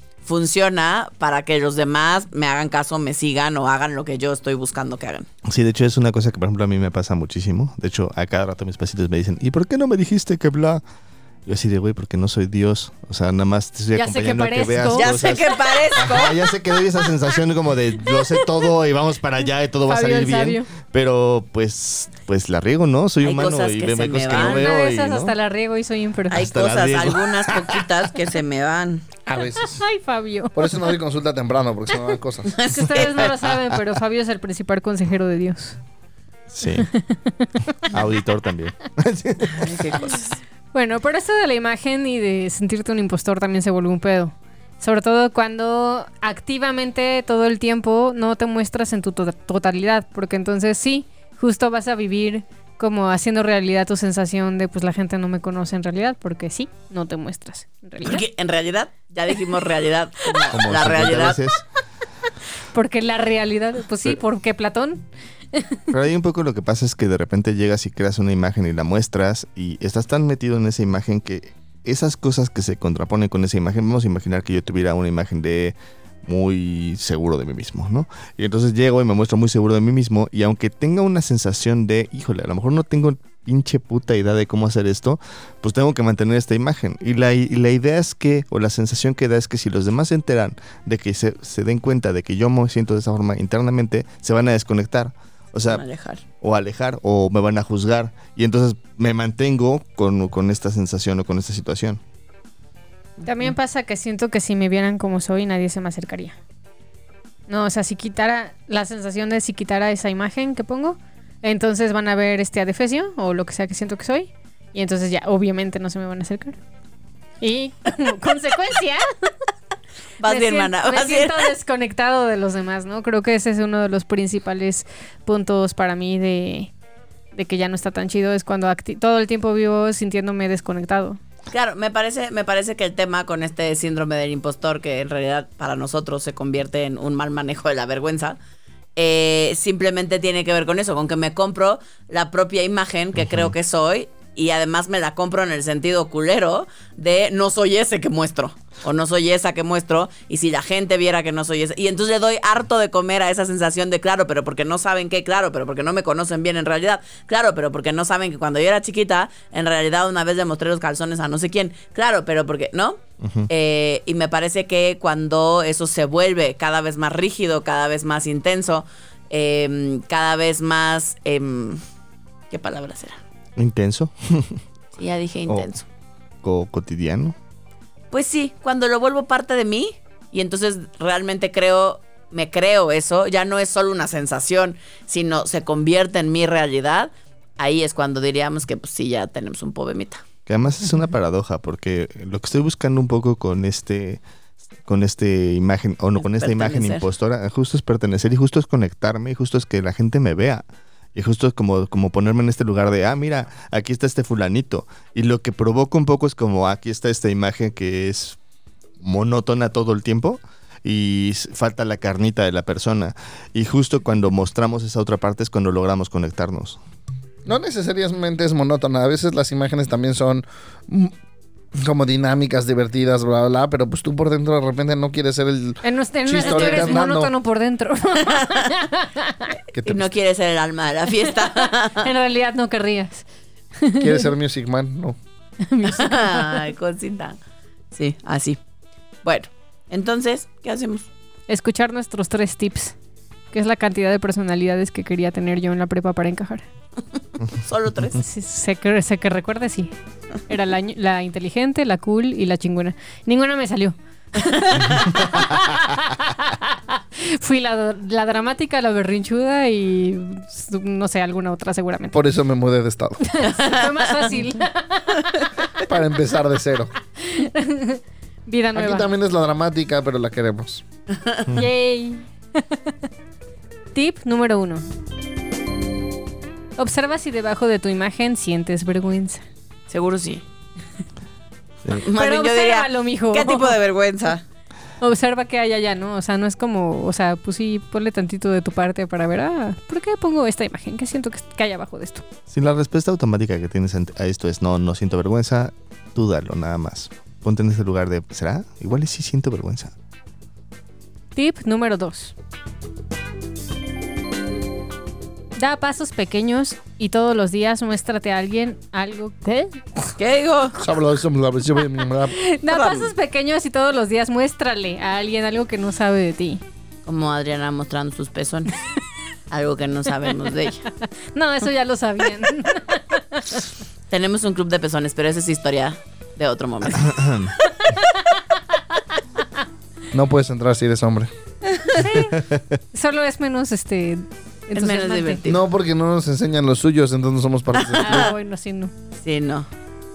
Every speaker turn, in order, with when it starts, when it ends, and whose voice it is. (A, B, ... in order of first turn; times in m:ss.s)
0:00.2-0:05.3 A
0:05.5-0:10.8 B
0:11.5-0:25.4 B
0:13.9-0:15.2 C
0:14.9-0:16.5 A
0:18.4-0:18.6 C
0:19.9-0:20.7 C
0:23.2-0:24.7 A
0:24.3-0:26.4 C
0:26.3-0:29.1 A
0:26.3-0:27.8 B
0:29.3-0:29.8 D
0:29.5-0:30.8 C
0:30.6-0:32.6 D
0:32.5-0:33.3 A
0:32.7-0:35.8 C
0:36.5-0:36.9 B
0:36.8-0:37.9 C
0:37.9-0:39.9 B
0:39.4-0:40.4 A
0:40.7-0:58.2 C
0:58.0-1:01.4 A
1:00.5-1:01.6 B
1:02.6-1:05.8 C
1:05.9-1:35.8 B
1:35.7-1:36.2 A
1:36.4-1:42.0 B
1:43.2-1:43.5 A
1:43.2-1:46.4 C
1:47.5-1:56.6 C
1:57.4-1:59.0 C
2:00.2-2:01.4 A
2:00.2-2:06.7 C
2:07.4-2:11.2 C
2:11.5-2:18.4 A
2:19.0-2:51.8 A
2:43.2-2:43.5 B
2:52.5-2:53.2 A
2:53.6-2:54.6 B
2:55.0-2:55.8 A
2:56.4-2:57.4 B
2:58.1-3:10.2 A
3:10.5-3:14.2 B
3:14.8-3:20.6 B
3:16.2-3:17.0 A
3:21.2-3:28.4 B
3:29.0-3:36.8 B
3:37.5-3:41.1 D
3:41.8-3:47.3 D
3:45.8-3:49.5 C
3:46.4-3:47.0 A
3:49.7-3:50.1 D
3:49.8-3:52.1 A
3:51.3-3:53.3 C
3:53.8-3:54.2 C
3:54.0-3:55.2 D
3:55.7-3:56.6 C
3:55.8-3:57.4 A
3:57.9-3:58.6 A
3:59.2-4:01.1 A
4:01.5-4:03.0 C
4:03.5-4:06.7 C
4:07.6-4:08.2 A
4:08.2-4:09.9 C
4:10.5-4:22.2 C
4:14.8-4:15.0 A
4:22.1-4:23.2 D
4:23.3-4:25.5 C
4:23.6-4:24.2 A
4:25.8-4:26.9 D
4:27.2-4:29.1 C
4:28.7-4:30.8 D
4:31.5-4:32.9 C
4:33.9-4:34.8 C
4:36.8-4:39.4 C
4:39.9-4:40.4 A
4:41.9-4:44.4 A
4:42.2-4:43.8 C
4:45.0-4:52.2 C
4:52.5-4:59.9 B
5:01.4-5:02.3 C
5:05.6-5:10.2 C
5:10.2-5:10.8 A
5:10.8-5:12.3 D
5:12.4-5:16.6 C
5:12.7-5:13.1 A
5:17.1-5:18.7 A
5:19.5-5:20.8 A
5:21.3-5:23.6 C
5:24.1-5:27.2 A
5:27.1-5:27.5 B
5:27.8-5:28.2 C
5:30.1-5:31.3 D
5:31.7-5:35.4 C
5:32.1-5:32.6 B
5:34.8-5:35.6 A
5:35.5-5:38.3 D
5:37.8-5:38.3 A
5:38.0-5:38.9 C
5:39.2-5:39.7 A